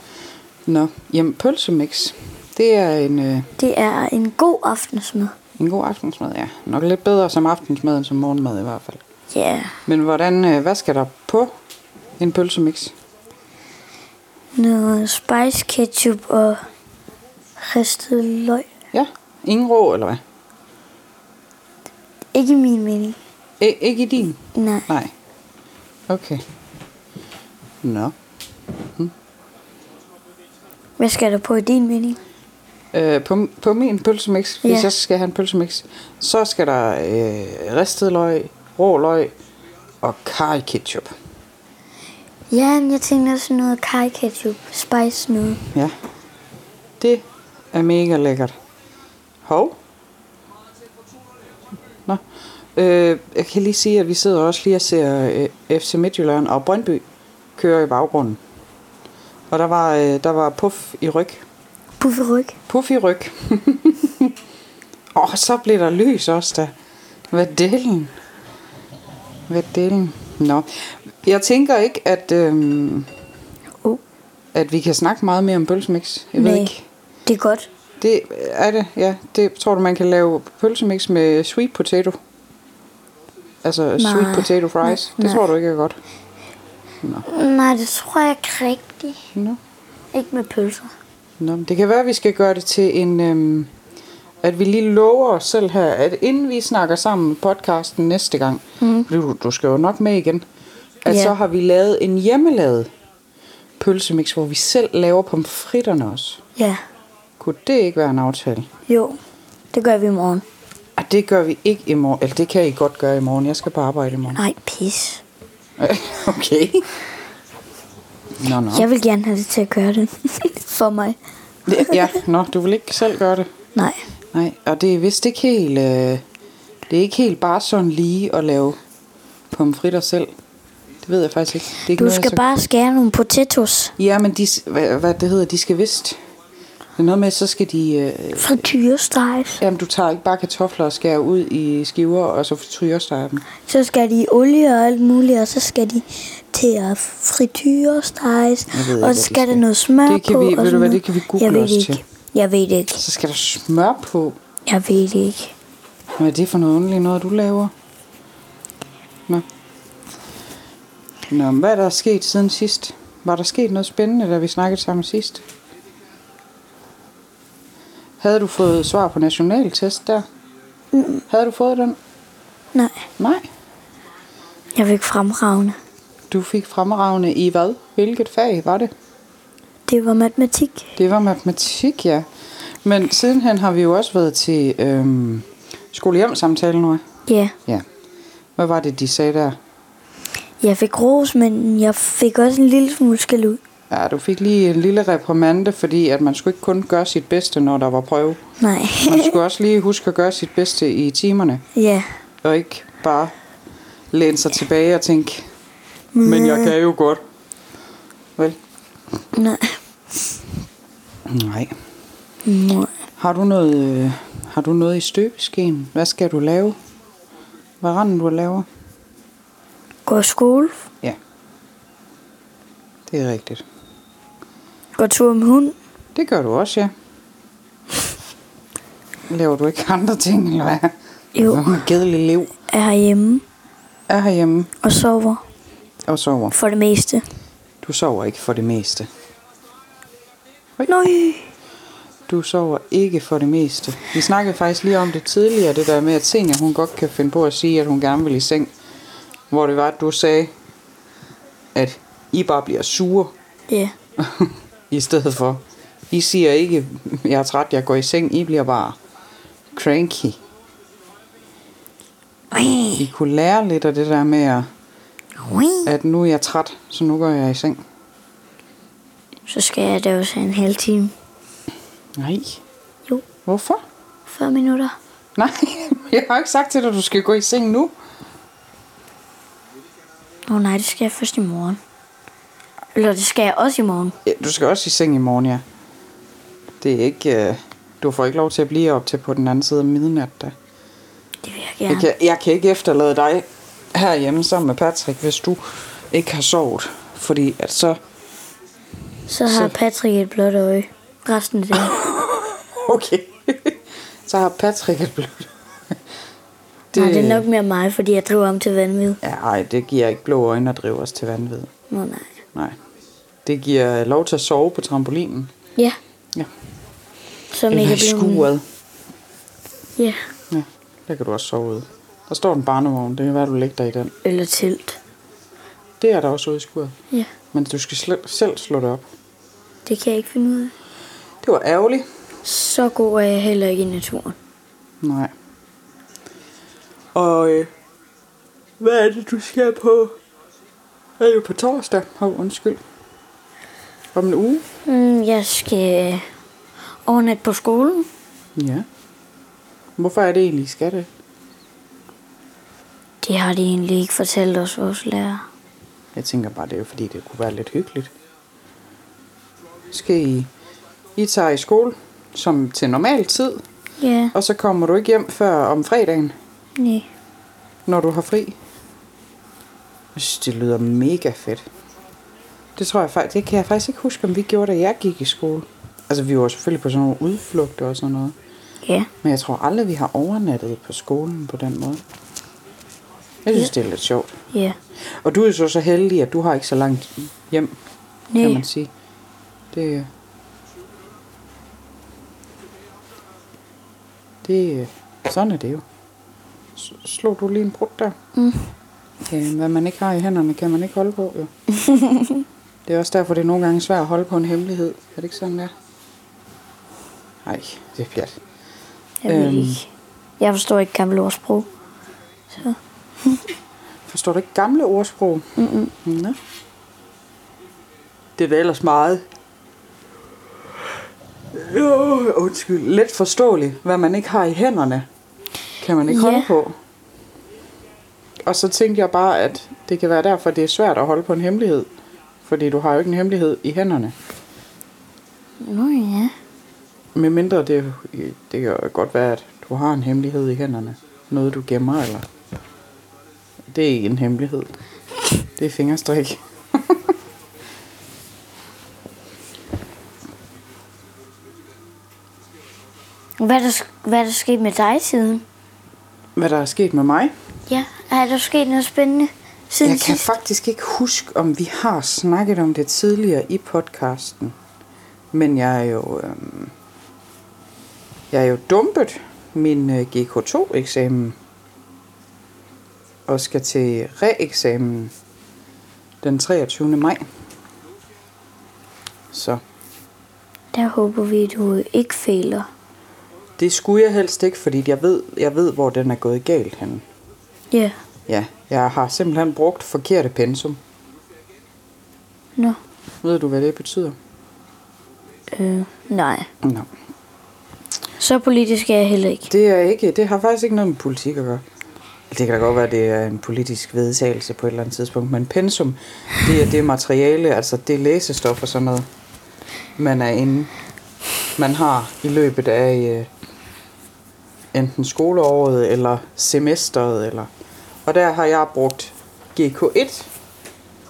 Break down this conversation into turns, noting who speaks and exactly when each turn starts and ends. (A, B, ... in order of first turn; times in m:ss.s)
0:00.6-0:03.5 A
0:03.6-0:05.3 B
0:05.6-0:09.0 A
0:09.3-0:09.7 B
0:09.9-0:11.5 A
0:12.2-0:12.9 A
0:14.6-0:16.6 B
0:17.6-0:18.7 B
0:18.9-0:20.2 A
0:22.3-0:23.2 B
0:23.6-0:25.1 A
0:24.6-0:24.9 B
0:26.1-0:26.4 A
0:27.8-0:28.1 A
0:31.0-0:32.2 B
0:32.9-0:39.3 A
0:34.6-0:34.9 B
0:40.0-0:41.1 A
0:42.5-0:45.6 B
0:47.0-0:48.6 A
0:49.4-0:49.8 A
0:52.8-0:57.0 A
0:57.6-0:58.4 A
0:59.5-1:01.4 A
1:02.0-1:02.6 B
1:02.7-1:04.3 A
1:05.1-1:06.7 A
1:07.3-1:08.1 A
1:09.5-1:13.1 A
1:14.6-1:16.8 A
1:16.4-1:16.7 B
1:17.2-1:17.7 B
1:18.0-1:22.2 A
1:23.6-1:26.0 A
1:24.0-1:25.4 B
1:27.2-1:29.3 B
1:29.3-1:29.6 A
1:30.1-1:30.9 B
1:31.4-1:33.7 A
1:34.4-1:40.4 A
1:38.8-1:39.1 B
1:41.0-1:42.9 A
1:41.1-1:41.3 B
1:43.8-1:46.4 A
1:47.4-1:48.7 A
1:48.9-1:49.2 B
1:49.7-1:50.4 B
1:51.0-1:54.4 A
1:54.3-1:55.2 B
1:55.8-1:56.9 A
1:58.4-1:58.9 A
1:58.7-2:01.2 B
2:01.7-2:03.5 A
2:01.8-2:02.1 B
2:03.8-2:04.0 B
2:04.3-2:06.2 A
2:06.9-2:08.8 A
2:09.5-2:10.3 A
2:11.0-2:12.4 A
2:11.9-2:13.9 B
2:14.0-2:16.2 A
2:17.0-2:18.6 A
2:18.4-2:19.6 B
2:19.6-2:23.4 A
2:23.7-2:33.0 B
2:28.7-2:32.0 A
2:33.0-2:34.4 A
2:34.6-2:35.5 B
2:36.2-2:37.7 A
2:41.3-2:45.4 A
2:48.2-2:50.2 A
2:50.9-2:51.2 B
2:51.3-2:52.0 A
2:52.7-2:53.0 B
2:53.2-2:53.4 A
2:54.7-2:55.8 B
2:56.3-2:58.9 A
2:59.9-3:00.9 B
3:01.0-3:02.3 A
3:02.8-3:07.0 A
3:07.3-3:07.6 B
3:08.6-3:09.6 A
3:10.6-3:13.6 B
3:13.9-3:18.4 A
3:18.6-3:19.4 B
3:19.0-3:21.6 A
3:21.8-3:22.1 B
3:22.4-3:23.3 A
3:24.1-3:25.5 A
3:26.1-3:26.7 B
3:26.2-3:27.2 A
3:29.3-3:29.8 B
3:31.2-3:31.7 A
3:32.4-3:32.9 B
3:33.2-3:36.8 A
3:37.8-3:38.7 A
3:40.1-3:40.8 B
3:43.1-3:43.6 A
3:45.0-3:45.8 B
3:46.1-3:46.9 A
3:49.3-3:50.9 A
3:51.3-3:51.8 B
3:51.4-3:52.5 A
3:52.7-3:53.4 B
3:54.1-3:54.7 A
3:54.8-3:55.4 B
3:56.1-3:56.6 A
3:56.5-3:57.2 B
3:57.8-3:59.1 A
4:00.9-4:01.5 B
4:02.3-4:08.7 A
4:09.5-4:10.5 A
4:11.8-4:13.3 A
4:14.2-4:19.0 A
4:19.7-4:20.4 A
4:22.5-4:23.0 B
4:23.0-4:24.7 A
4:25.4-4:25.9 B
4:25.9-4:27.8 A
4:29.5-4:31.1 B
4:32.2-4:32.6 A
4:33.4-4:33.8 A
4:34.3-4:34.9 B
4:35.4-4:37.9 A
4:40.5-4:41.8 B
4:42.9-4:44.1 B
4:44.2-4:45.6 A
4:46.8-4:50.5 A
4:51.4-4:52.1 B
4:51.9-4:58.0 A
4:59.3-5:02.0 B
4:59.5-4:59.8 A
5:01.7-5:06.0 A
5:06.9-5:07.5 A
5:06.9-5:09.2 B
5:09.2-5:11.7 A
5:11.9-5:12.4 B
5:13.4-5:15.5 A
5:17.5-5:18.5 B
5:17.7-5:18.6 A
5:20.5-5:24.1 A
5:24.2-5:25.0 B
5:26.0-5:26.9 A
5:27.5-5:29.1 A
5:29.9-5:30.7 B
5:31.4-5:32.0 A
5:32.4-5:34.4 B
5:35.0-5:35.3 A
5:37.1-5:37.7 A
5:38.8-5:40.2 A
5:41.2-5:42.8 A
5:44.1-5:44.6 A
5:44.8-5:46.3 B
5:47.0-5:48.1 B
5:48.6-5:48.9 A
5:50.0-5:51.1 A
5:53.2-5:55.4 B
5:56.1-5:58.1 A
5:59.9-6:00.5 A
6:01.2-6:03.6 A
6:04.0-6:04.3 B
6:04.3-6:06.4 A
6:06.8-6:07.1 B
6:07.9-6:08.6 A
6:10.1-6:11.6 A
6:12.8-6:18.4 A
6:18.8-6:19.1 B
6:19.2-6:22.0 A
6:23.4-6:24.4 A
6:25.1-6:27.8 A
6:28.3-6:28.6 B
6:28.4-6:28.9 A
6:29.7-6:30.1 A
6:34.4-6:35.8 A
6:36.8-6:38.2 A
6:38.4-6:38.7 B
6:39.2-6:41.5 A
6:41.8-6:42.4 B
6:42.9-6:45.7 A
6:47.4-6:48.4 A
6:49.2-6:49.9 B
6:49.3-6:49.8 A
6:50.4-6:51.7 B
6:52.5-6:53.4 B
6:54.1-6:55.5 A
6:55.6-6:55.9 B
6:56.0-6:56.4 A
6:58.4-6:59.2 A
7:01.5-7:05.0 A
7:05.8-7:06.8 A
7:06.1-7:06.5 B
7:08.4-7:11.9 A
7:12.4-7:14.1 A
7:15.6-7:16.3 B
7:17.1-7:22.2 A
7:23.7-7:24.7 A
7:25.4-7:27.1 A
7:33.4-7:35.4 B
7:36.4-7:37.3 A
7:37.7-7:40.3 B
7:39.8-7:44.6 A
7:45.3-7:46.7 A
7:48.3-7:51.4 A
7:53.3-7:55.1 A
7:56.2-7:57.2 A
7:59.3-7:59.6 A
8:00.7-8:02.7 B
8:03.6-8:07.0 A
8:07.7-8:08.0 B
8:08.3-8:10.8 A
8:13.2-8:14.2 A
8:15.5-8:16.5 B
8:16.6-8:16.9 A
8:18.2-8:19.5 B
8:19.5-8:21.6 A
8:22.3-8:29.0 A
8:30.0-8:30.7 A
8:31.6-8:33.3 A
8:34.7-8:37.5 A
8:38.0-8:40.3 A